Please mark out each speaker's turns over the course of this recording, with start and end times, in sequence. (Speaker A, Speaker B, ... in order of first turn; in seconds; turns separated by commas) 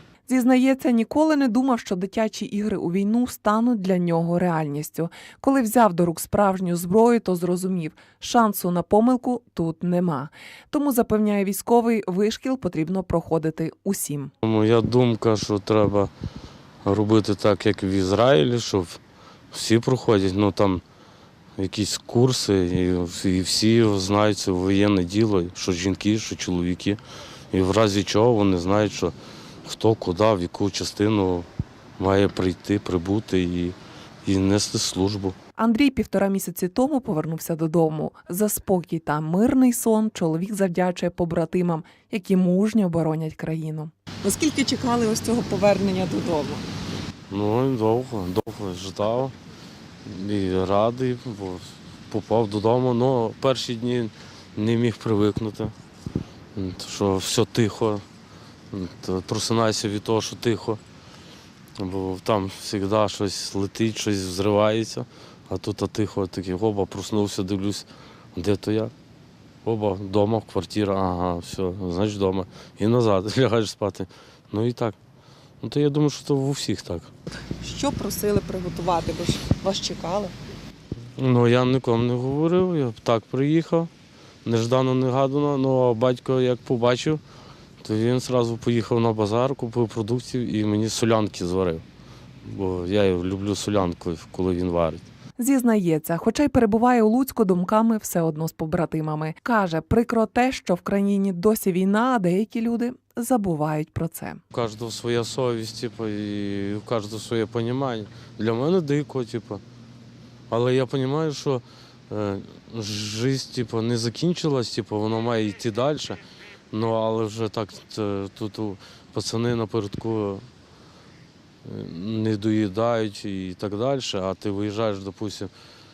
Speaker A: 0.3-14.3, Speaker B: 14.4-16.1, Speaker B: 16.8-19.0, Speaker B: 19.5-20.8, Speaker B: 21.6-27.0, Speaker B: 27.5-29.1, Speaker B: 29.6-31.5, Speaker B: 32.0-35.4, Speaker A: 35.6-43.9, Speaker C: 44.3-46.5, Speaker B: 47.3-49.3, Speaker B: 50.0-55.7, Speaker B: 56.5-58.0, Speaker B: 58.7-60.8, Speaker B: 61.8-68.9, Speaker B: 69.6-75.0, Speaker B: 75.6-77.1, Speaker B: 81.2-83.9, Speaker B: 84.5-87.2, Speaker B: 87.8-91.8, Speaker B: 92.4-95.1, Speaker A: 95.4-104.4, Speaker B: 104.5-109.6, Speaker B: 110.5-116.2, Speaker B: 116.7-120.5, Speaker B: 121.7-125.5